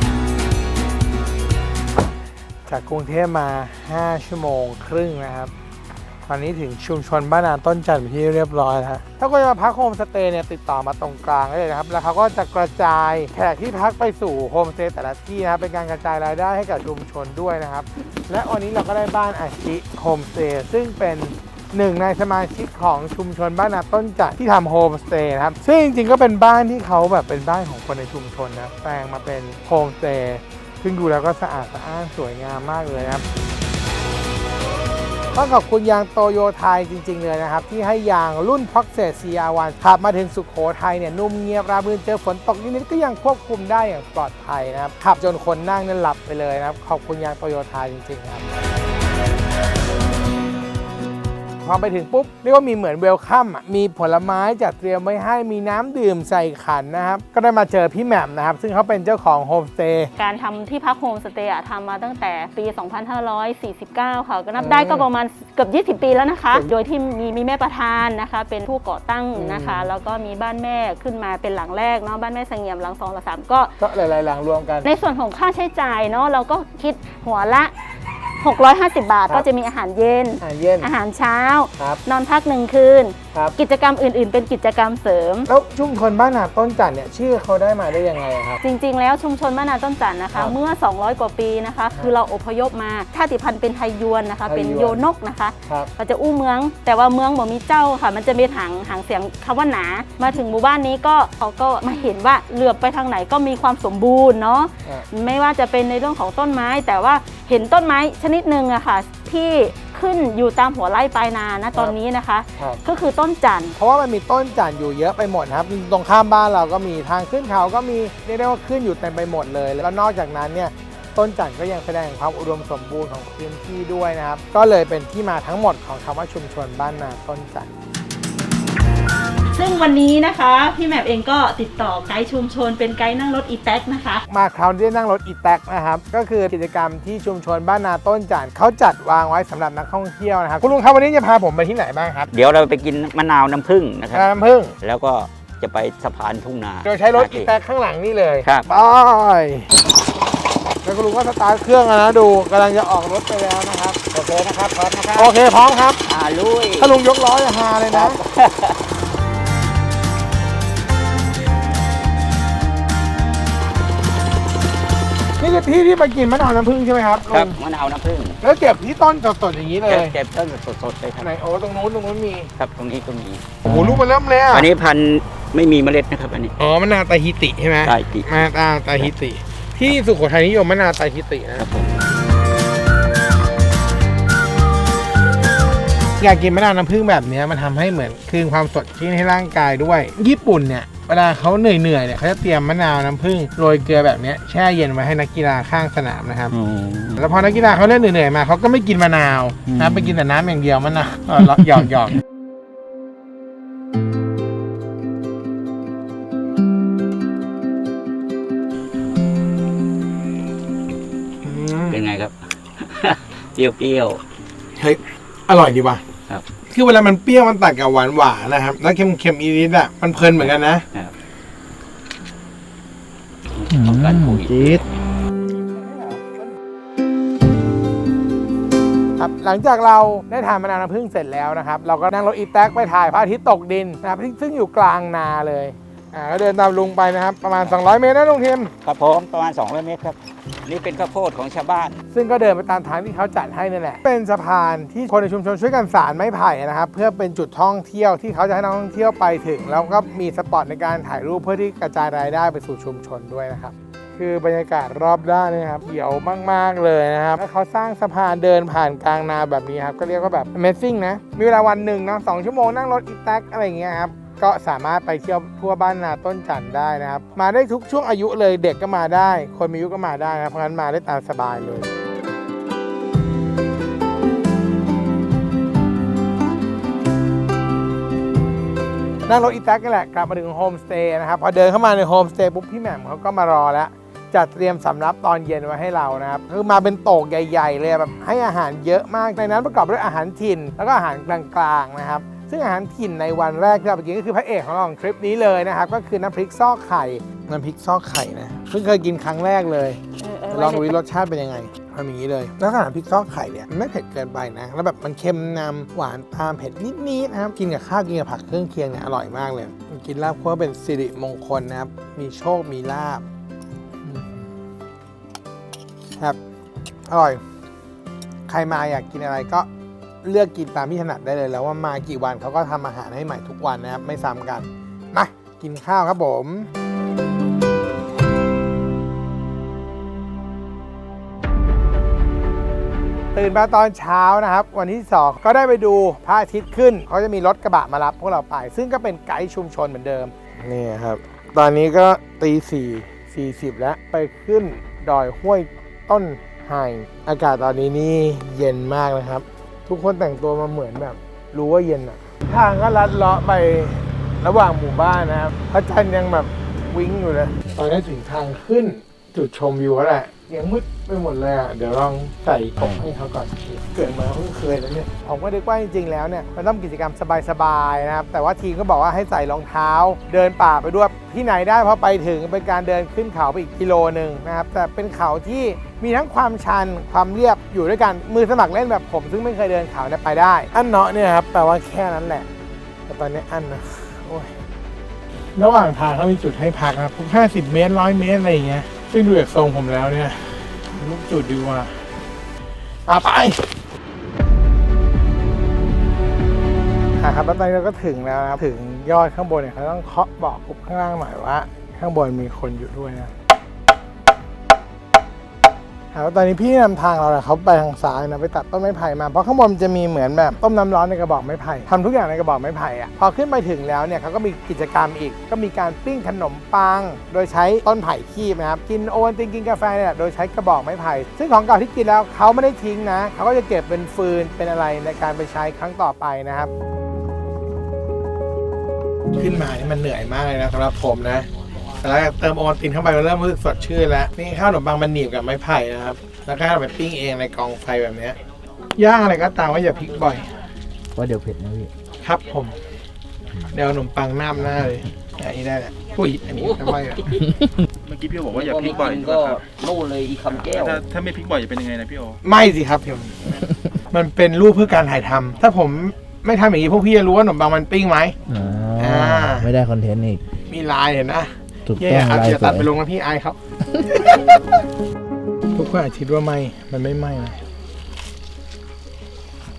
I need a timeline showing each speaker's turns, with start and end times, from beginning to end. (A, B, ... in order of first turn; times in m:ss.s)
0:02.7-0:05.5 A
0:06.3-0:33.2 A
0:35.3-0:48.4 A
0:51.6-1:00.1 A
1:00.2-1:13.7 B
1:04.6-1:05.1 A
1:09.3-1:09.9 A
1:13.8-1:14.9 A
1:14.8-1:17.7 B
1:18.4-1:25.5 B
1:20.4-1:20.9 A
1:25.5-1:28.6 A
1:28.6-1:53.8 B
1:34.4-1:35.0 A
1:53.8-2:07.7 A
2:09.5-2:14.2 B
2:14.3-2:22.3 A
2:22.3-2:24.3 C
2:24.1-2:24.7 A
2:24.8-2:27.5 C
2:26.8-2:29.7 A
2:30.8-2:34.0 A
2:34.1-2:35.3 C
2:35.1-2:36.0 A
2:36.0-2:36.9 C
2:36.8-2:38.2 A
2:37.9-2:38.8 C
2:45.4-2:47.6 A
2:47.3-2:48.4 C
2:48.4-2:50.1 A
2:49.9-2:51.3 C
2:51.2-2:52.5 A
2:52.6-2:53.4 C
2:53.6-2:54.7 A
2:54.5-2:56.5 C
2:56.6-3:01.6 A
2:57.8-2:59.1 C
3:01.6-3:02.0 C
3:06.2-3:16.5 A
3:16.5-3:17.2 C
3:17.2-3:22.2 A
3:19.7-3:20.1 C
3:31.4-3:32.0 A
3:31.9-3:34.2 C
3:34.8-3:36.0 A
3:36.7-3:40.8 A
3:43.5-3:44.9 C
3:43.7-3:44.8 D
3:45.8-3:46.2 A
3:49.2-3:58.7 A
3:58.8-4:02.0 C
4:02.1-4:31.9 A
4:39.2-5:00.0 A
5:00.2-5:01.0 B
5:00.5-5:13.2 A
5:14.0-5:14.4 A
5:17.1-5:17.4 A
5:18.5-5:19.7 A
5:20.2-5:26.7 A
5:33.3-6:22.5 A
6:23.1-6:24.5 A
6:25.6-6:31.9 A
6:33.1-6:33.7 A
6:37.2-6:43.3 A
6:46.1-7:06.7 A
7:09.4-7:11.5 A
7:12.0-7:18.4 A
7:18.9-7:20.4 A
7:21.2-7:21.9 D
7:22.2-7:22.7 A
7:23.7-7:27.3 A
7:26.5-7:27.0 C
7:28.0-7:29.7 E
7:28.5-7:31.0 C
7:30.5-7:32.4 E
7:32.4-7:33.6 A
7:34.1-7:38.4 A
7:38.5-7:40.4 D
7:39.0-7:39.7 A
7:40.6-7:43.6 A
7:41.8-7:42.9 D
7:44.1-7:44.5 A
7:45.7-7:47.6 A